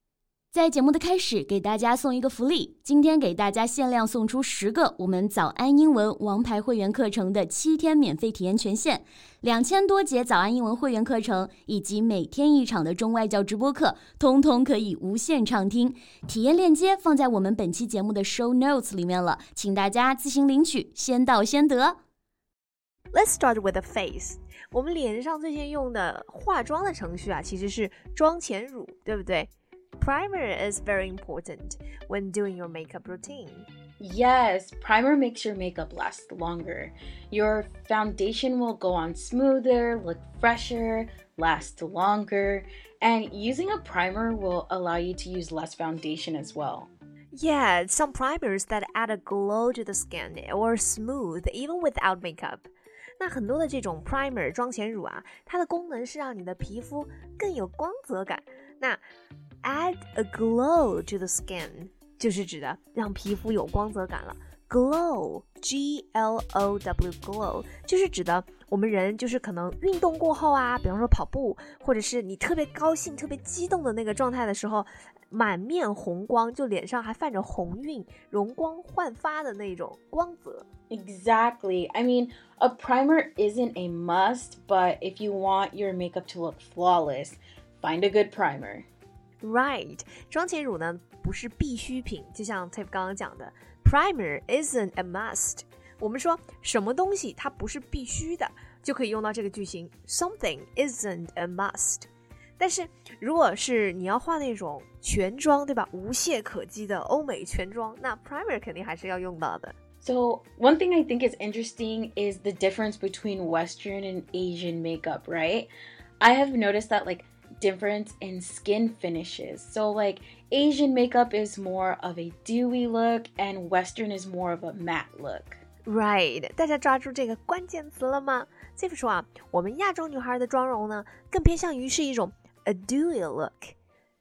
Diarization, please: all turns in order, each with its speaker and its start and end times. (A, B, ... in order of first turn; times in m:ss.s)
0:00.5-0:22.0 A
0:23.1-0:33.7 B
0:34.0-0:46.9 C
0:47.3-0:52.7 B
0:53.2-0:59.0 B
0:59.6-1:20.6 B
1:20.9-1:28.8 C
1:29.4-1:42.1 B
1:42.6-1:49.8 B
1:50.0-2:05.6 C
2:05.8-2:13.7 B